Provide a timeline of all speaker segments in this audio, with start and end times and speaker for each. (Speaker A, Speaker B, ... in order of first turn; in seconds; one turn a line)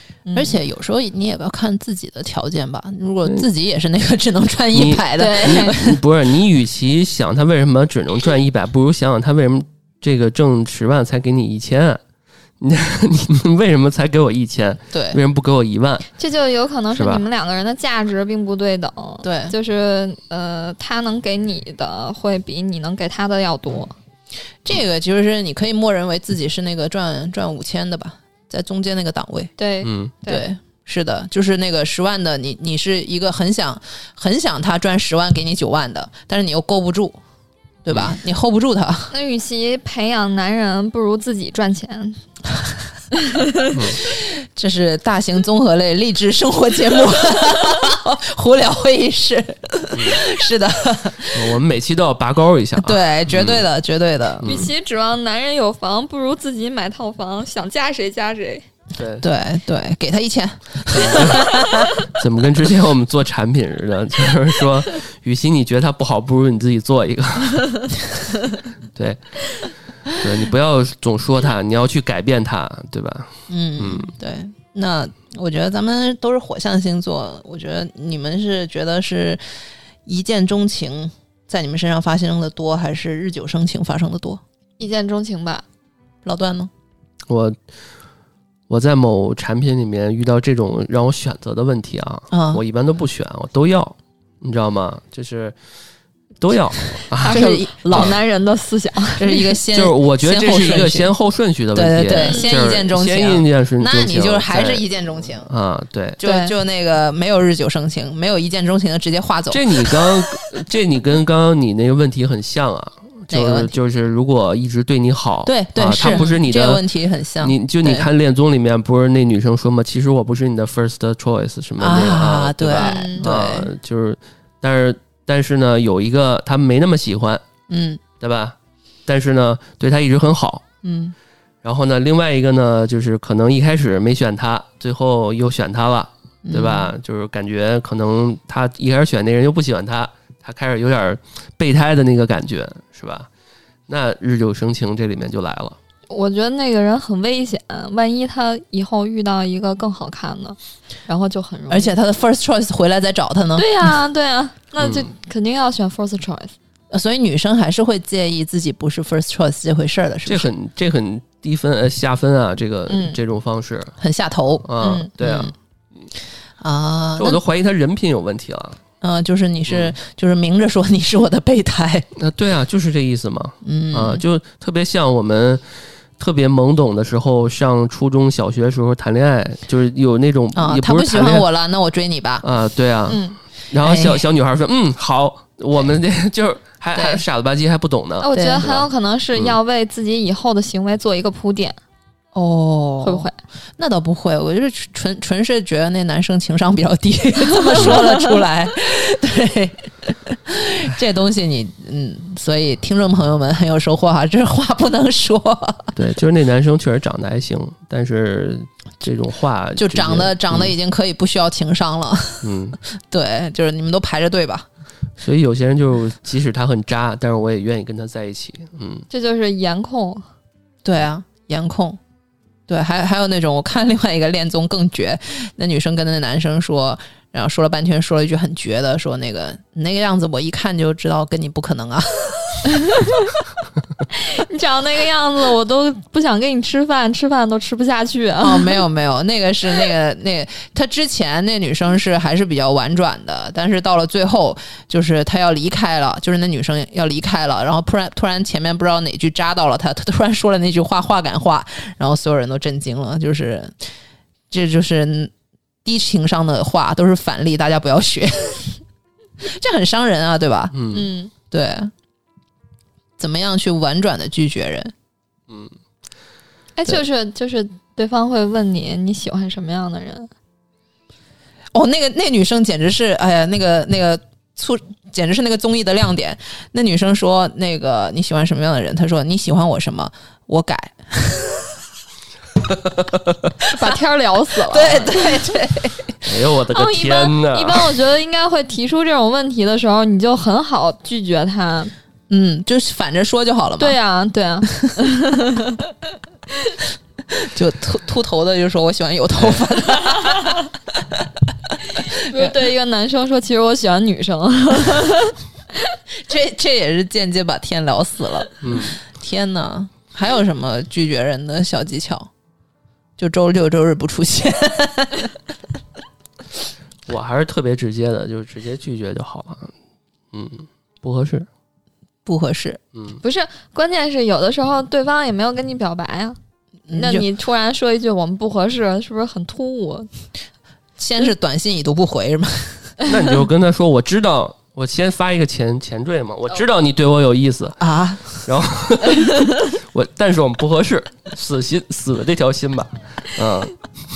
Speaker A: 0.2-0.6
Speaker B: 0.3-6.0
Speaker C: 4.7-12.0
Speaker A: 5.2-5.8
Speaker C: 12.6-16.1
Speaker B: 14.9-15.2
Speaker A: 16.2-23.9
Speaker C: 16.9-17.2
Speaker B: 19.2-19.5
Speaker B: 24.6-29.5
Speaker A: 29.6-30.5
Speaker C: 29.8-30.1
Speaker B: 30.2-37.2
Speaker B: 37.8-39.1
Speaker A: 39.1-42.2
Speaker A: 43.1-43.7
Speaker C: 43.7-44.0
Speaker B: 44.0-51.6
Speaker C: 49.9-50.2
Speaker C: 51.3-53.6
Speaker B: 52.8-54.5
Speaker C: 54.4-54.7
Speaker A: 54.4-58.6
Speaker C: 59.0-59.2
Speaker B: 59.2-61.9
Speaker C: 60.9-61.5
Speaker C: 62.0-68.0
Speaker C: 68.9-74.1
Speaker B: 73.5-79.4
Speaker B: 80.0-84.4
Speaker A: 84.8-85.6
Speaker B: 86.2-86.7
Speaker C: 87.3-87.5
Speaker C: 88.7-95.5
Speaker B: 92.3-92.6
Speaker C: 96.4-98.2
Speaker A: 97.2-99.5
Speaker B: 97.3-98.2
Speaker B: 99.2-101.1
Speaker C: 99.7-104.8
Speaker B: 101.7-105.5
Speaker A: 102.2-102.6
Speaker C: 105.4-106.2
Speaker B: 106.2-110.2
Speaker A: 106.2-106.5
Speaker C: 109.5-116.8
Speaker B: 113.3-113.7
Speaker B: 115.4-118.1
Speaker A: 116.0-116.3
Speaker C: 117.4-127.4
Speaker B: 121.8-123.7
Speaker A: 122.8-123.3
Speaker B: 127.7-128.0
Speaker C: 128.2-128.5
Speaker C: 129.1-130.6
Speaker B: 130.8-131.1
Speaker C: 131.6-143.3
Speaker B: 136.4-136.9
Speaker C: 143.9-145.8
Speaker A: 146.1-151.9
Speaker B: 151.7-153.7
Speaker A: 153.6-156.5
Speaker C: 154.8-155.1
Speaker B: 156.9-160.5
Speaker C: 160.2-163.9
Speaker A: 162.9-163.2
Speaker B: 164.0-164.7
Speaker C: 164.6-165.5
Speaker A: 164.8-165.1
Speaker B: 165.2-165.5
Speaker B: 166.6-167.4
Speaker C: 167.2-168.8
Speaker B: 169.0-172.1
Speaker C: 169.7-169.9
Speaker C: 172.2-175.6
Speaker B: 173.6-174.2
Speaker C: 176.2-181.4
Speaker B: 180.5-182.4
Speaker C: 182.4-189.6
Speaker A: 183.1-183.3
Speaker B: 183.8-184.2
Speaker B: 186.9-187.2
Speaker A: 188.2-191.8
Speaker B: 188.3-188.7
Speaker B: 192.3-205.9
Speaker A: 193.0-193.3
Speaker A: 197.6-198.2
Speaker C: 205.9-210.7
Speaker B: 209.8-212.5
Speaker C: 212.4-212.8
Speaker B: 213.1-214.7
Speaker C: 215.2-219.1
Speaker A: 219.1-220.2
Speaker B: 220.8-222.0
Speaker B: 222.7-232.7
Speaker A: 234.1-238.8
Speaker B: 238.4-253.8
Speaker B: 254.5-255.3
Speaker B: 255.8-258.8
Speaker B: 259.4-260.7
Speaker C: 260.7-261.1
Speaker A: 260.9-261.3
Speaker B: 261.5-261.9
Speaker B: 263.2-264.9
Speaker C: 265.5-265.7
Speaker A: 266.8-270.3
Speaker B: 271.7-281.8
Speaker C: 282.9-283.3
Speaker A: 283.7-285.4
Speaker B: 284.7-286.3
Speaker C: 286.2-287.9
Speaker A: 286.7-291.9
Speaker B: 292.3-293.9
Speaker A: 293.8-295.9
Speaker B: 297.3-302.5
Speaker A: 302.1-305.4
Speaker B: 306.1-312.3
Speaker C: 308.6-309.0
Speaker B: 313.2-315.3
Speaker C: 317.1-319.7
Speaker C: 320.3-321.5
Speaker B: 322.2-322.8
Speaker C: 322.9-323.2
Speaker A: 323.2-326.4
Speaker B: 326.9-327.2
Speaker A: 326.9-330.1
Speaker B: 331.0-332.9
Speaker C: 333.1-337.8
Speaker B: 337.8-338.4
Speaker C: 338.3-343.8